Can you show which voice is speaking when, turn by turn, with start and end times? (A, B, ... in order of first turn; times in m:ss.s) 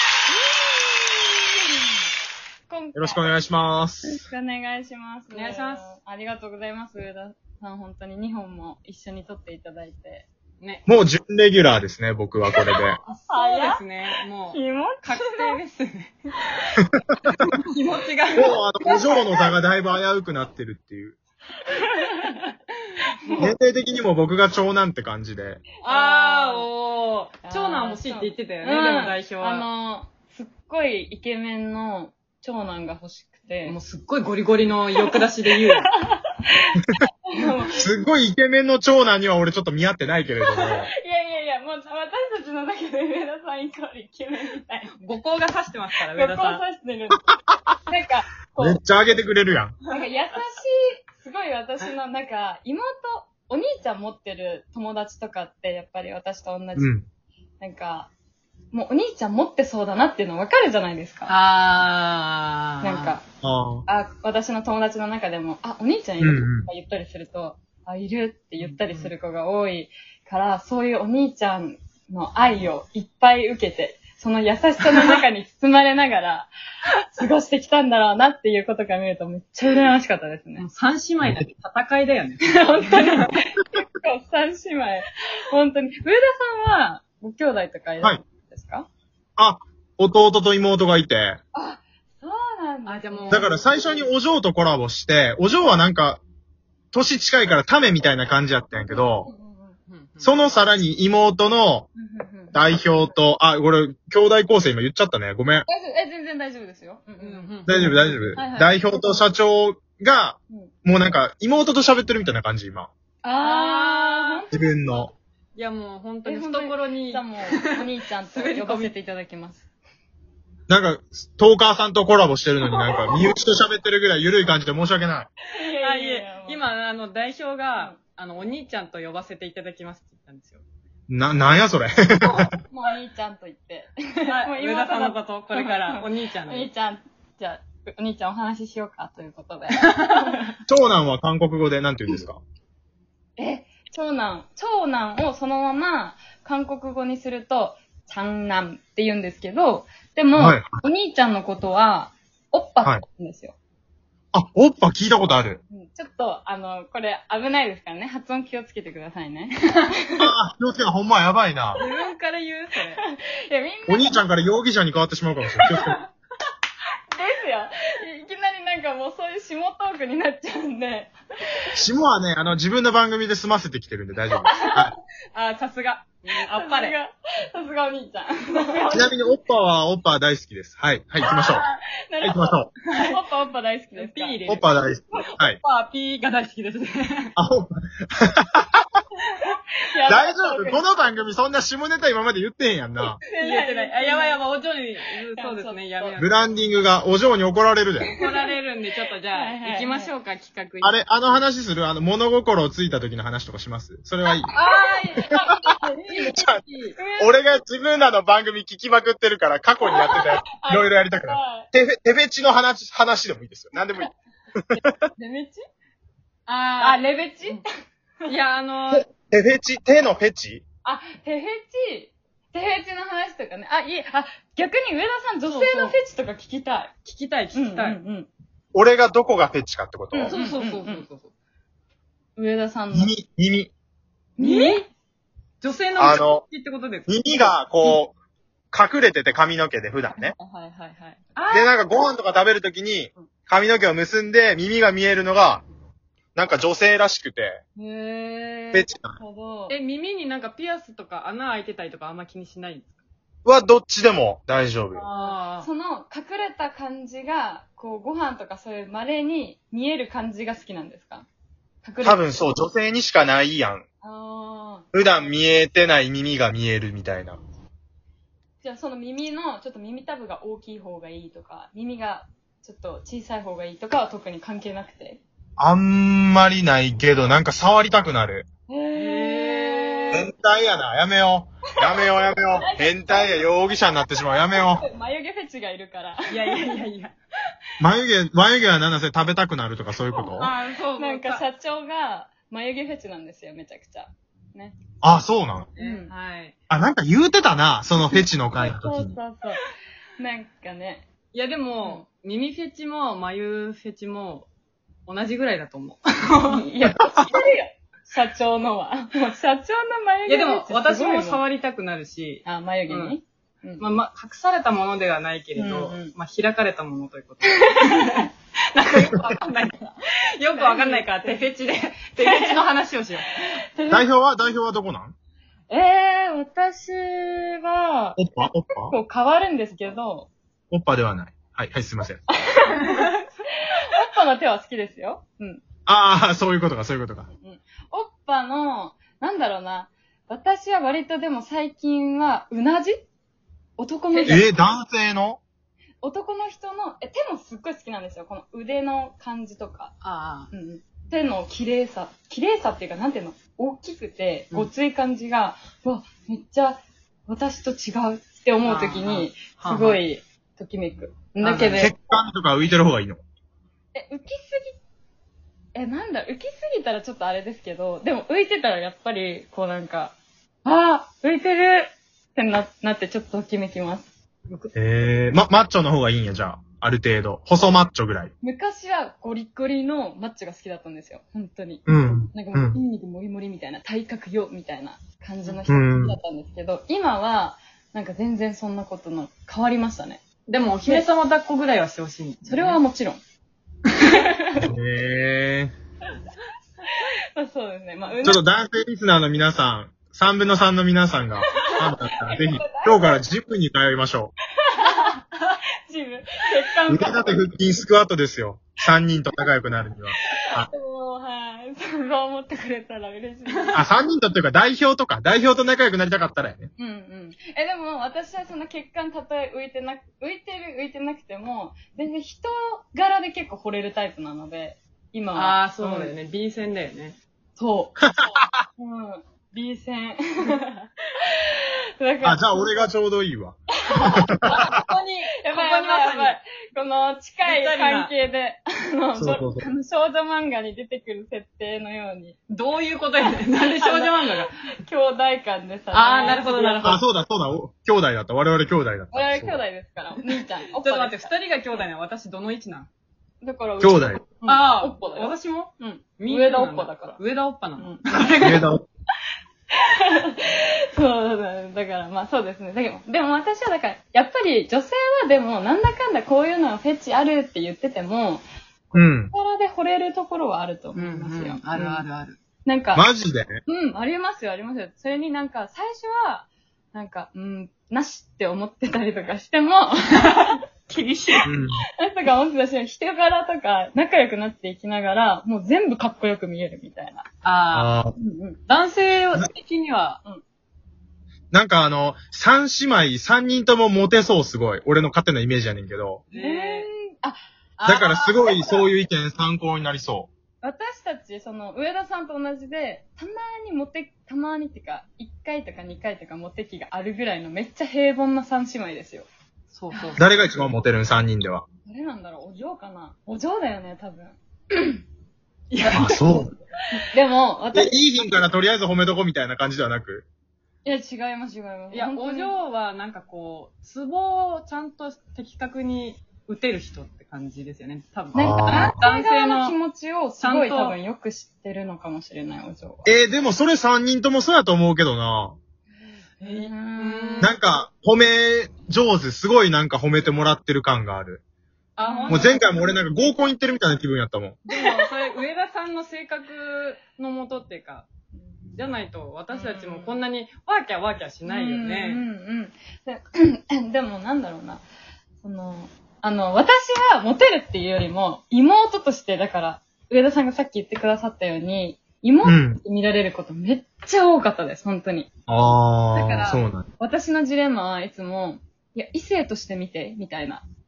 0:00.3-0:01.4 A
0:02.7-0:03.4 A
0:02.9-0:04.2 B
0:04.0-0:10.3 A
0:05.3-0:05.9 C
0:10.9-0:13.0 B
0:13.0-0:16.1 C
0:13.1-0:13.8 A
0:14.5-0:15.6 A
0:16.8-0:17.3 B
0:17.3-0:19.1 C
0:18.3-0:21.2 B
0:18.8-0:19.5 A
0:21.6-0:22.5 A
0:23.1-0:23.5 A
0:23.4-0:25.6 B
0:25.8-0:29.6 C
0:25.9-0:26.7 A
0:27.4-0:33.8 A
0:33.6-0:35.9 C
0:34.9-0:35.2 A
0:35.8-0:37.8 A
0:37.8-0:40.9 B
0:40.6-0:44.9 A
0:45.0-0:46.6 C
0:46.1-0:47.3 A
0:47.8-0:48.8 A
0:48.6-0:49.7 B
0:49.9-0:56.9 A
0:56.8-0:57.0 B
0:57.6-0:58.1 A
0:58.7-1:01.3 A
1:01.3-1:03.2 C
1:02.8-1:03.2 A
1:03.4-1:03.8 B
1:03.9-1:16.5 A
1:06.2-1:06.7 B
1:08.6-1:09.1 C
1:17.1-1:20.6 A
1:20.6-1:23.4 C
1:22.4-1:28.9 A
1:29.4-1:31.4 B
1:31.5-1:33.6 A
1:32.8-1:33.5 C
1:33.3-1:36.2 B
1:36.9-1:39.3 B
1:38.8-1:39.8 A
1:39.9-1:40.4 C
1:40.2-1:41.9 B
1:42.0-1:42.6 A
1:42.5-1:45.6 B
1:45.7-1:48.8 A
1:47.2-1:47.8 C
1:47.7-1:52.9 B
1:53.2-1:54.7 A
1:53.3-1:54.4 C
1:54.5-1:55.1 B
1:55.6-1:58.9 C
1:56.2-1:59.6 A
2:00.7-2:05.3 B
2:02.8-2:03.0 C
2:05.5-2:06.6 A
2:05.6-2:10.6 C
2:11.1-2:12.5 B
2:12.2-2:12.5 C
2:12.7-2:20.6 A
2:14.3-2:16.7 C
2:20.7-2:22.4 B
2:23.4-2:33.5 A
2:30.4-2:30.8 B
2:34.3-2:35.6 B
2:35.7-2:40.3 A
2:40.2-2:41.8 B
2:41.8-2:43.0 C
2:43.0-2:44.2 A
2:43.9-2:46.0 B
2:45.6-2:45.9 A
2:47.1-2:51.7 A
2:51.7-2:54.9 B
2:54.4-2:54.9 A
2:55.3-2:56.9 C
2:56.3-2:59.1 A
2:58.9-3:01.6 B
3:01.2-3:01.6 C
3:01.3-3:04.4 A
3:02.2-3:02.7 B
3:02.9-3:03.2 C
3:03.9-3:07.3 C
3:04.5-3:05.6 B
3:07.4-3:08.8 B
3:09.3-3:10.9 A
3:10.1-3:13.2 B
3:13.2-3:14.4 A
3:13.4-3:16.5 C
3:15.3-3:16.2 A
3:16.2-3:18.1 B
3:18.0-3:18.5 A
3:18.1-3:21.0 C
3:19.3-3:20.1 A
3:20.8-3:24.5 B
3:24.4-3:26.4 A
3:24.5-3:27.0 C
3:26.1-3:26.6 B
3:27.0-3:27.6 A
3:27.2-3:35.0 B
3:29.8-3:31.7 A
3:34.7-3:35.6 A
3:36.5-3:37.6 C
3:36.7-3:37.7 A
3:38.2-3:39.1 C
3:38.9-3:40.6 B
3:40.8-3:46.9 A
3:45.4-3:46.0 C
3:47.0-3:48.0 C
3:47.5-3:48.3 A
3:48.7-3:50.3 B
3:50.1-3:51.0 A
3:50.2-3:51.3 C
3:52.4-3:53.1 A
3:52.9-3:53.7 B
3:54.4-3:54.8 C
3:54.4-3:54.8 A
3:55.6-3:57.9 C
3:56.0-3:56.4 B
3:57.1-3:58.1 B
3:58.7-4:00.3 B
4:00.1-4:01.6 A
4:01.4-4:01.7 C
4:01.5-4:05.6 B
4:06.3-4:07.6 B
4:07.8-4:09.8 A
4:08.7-4:09.2 B
4:09.7-4:13.0 C
4:13.4-4:15.0 B
4:14.9-4:21.3 A
4:15.0-4:15.7 C
4:21.8-4:22.5 A
4:22.0-4:23.8 B
4:24.0-4:24.9 A
4:24.9-4:27.4 B
4:28.6-4:35.2 A
4:35.6-4:38.4 B
4:38.7-4:40.3 A
4:38.9-4:40.3 C
4:40.1-4:44.8 B
4:42.0-4:43.5 A
4:44.2-4:46.7 A
4:46.3-4:47.1 C
4:47.8-4:50.5 B
4:50.3-4:54.8 A
4:50.3-4:51.4 C
4:55.0-4:55.7 B
4:55.8-4:56.5 C
4:55.8-4:56.1 A
4:56.7-4:59.2 B
4:58.5-4:59.6 A
5:00.2-5:01.1 A
5:01.3-5:04.5 C
5:05.1-5:06.6 C
5:06.4-5:11.4 A
5:10.2-5:13.1 C
5:12.4-5:13.8 A
5:13.8-5:23.3 C
5:15.6-5:16.1 A
5:17.6-5:18.2 A
5:20.5-5:21.4 A
5:22.2-5:22.6 A
5:23.7-5:24.1 A
5:23.9-5:25.1 B
5:25.7-5:30.3 A
5:28.2-5:29.0 B
5:30.7-5:32.2 B
5:32.4-5:35.6 A
5:32.9-5:33.1 C
5:35.8-5:37.3 B
5:37.4-5:43.0 A
5:43.8-5:44.6 A
5:44.1-5:44.4 C
5:44.2-5:45.4 B
5:46.0-5:49.9 A
5:50.0-5:50.5 C
5:50.5-6:02.0 A
5:58.6-6:00.0 C
6:01.4-6:01.9 C
6:01.8-6:03.2 B
6:03.9-6:04.8 A
6:05.7-6:14.1 A
6:14.7-6:18.3 B
6:18.4-6:30.2 A
6:21.9-6:22.8 B
6:25.7-6:26.2 B
6:30.5-6:32.8 C
6:32.5-6:33.2 A
6:34.0-6:34.7 A
6:34.6-6:35.7 B
6:36.8-6:38.4 A
6:38.2-6:44.3 B
6:41.5-6:43.2 A
6:44.6-6:47.4 A
6:46.9-6:50.7 B
6:50.3-6:53.8 A
6:53.7-6:56.7 B
6:56.8-7:06.1 A
7:05.3-7:07.2 C
7:07.6-7:12.7 A
7:08.0-7:08.5 B
7:12.2-7:13.6 B
7:13.8-7:14.8 A
7:14.1-7:14.8 B
7:14.4-7:16.4 C
7:15.4-7:22.4 A
7:17.4-7:18.1 C
7:19.2-7:19.7 B
7:22.5-7:24.5 C
7:23.8-7:27.0 A
7:25.9-7:27.0 C
7:26.8-7:29.6 B
7:29.1-7:31.3 A
7:30.8-7:32.9 C
7:33.4-7:37.2 A
7:33.8-7:34.2 B
7:34.4-7:38.6 C
7:37.8-7:38.3 A
7:38.4-7:38.8 B
7:39.7-7:48.4 A
7:48.9-7:49.3 B
7:49.3-7:52.0 A
7:50.9-7:52.4 C
7:52.6-7:53.1 A
7:52.9-7:53.6 B
7:53.6-8:07.3 A
8:01.4-8:01.8 B
8:07.4-8:08.0 C
8:07.7-8:08.1 B
8:08.2-8:08.6 A
8:08.7-8:10.2 C
8:11.5-8:16.2 B
8:16.3-8:16.9 C
8:16.3-8:17.4 A
8:17.8-8:18.2 C
8:17.8-8:20.3 B
8:18.1-8:18.8 A
8:20.6-8:29.3 A
8:29.7-8:30.2 C
8:29.9-8:30.2 A
8:30.2-8:31.6 B
8:31.8-8:35.0 A
8:35.7-8:36.4 C
8:35.8-8:36.5 B
8:36.9-8:38.0 A
8:37.7-8:40.2 B
8:40.8-8:42.6 A
8:41.9-8:49.8 C
8:48.3-8:49.0 B
8:48.3-8:53.1 A
8:50.4-8:51.0 C
8:53.0-8:55.6 B
8:56.4-8:57.6 C
8:56.4-8:57.6 A
8:57.4-9:01.4 B
9:02.0-9:02.7 C
9:02.0-9:02.8 A
9:02.3-9:04.6 B
9:04.6-9:08.1 C
9:04.7-9:05.1 A
9:08.8-9:12.2 C
9:09.5-9:10.2 A
9:11.5-9:14.8 A
9:15.4-9:25.3 A
9:22.4-9:22.8 B
9:25.5-9:26.9 B
9:26.1-9:30.6 A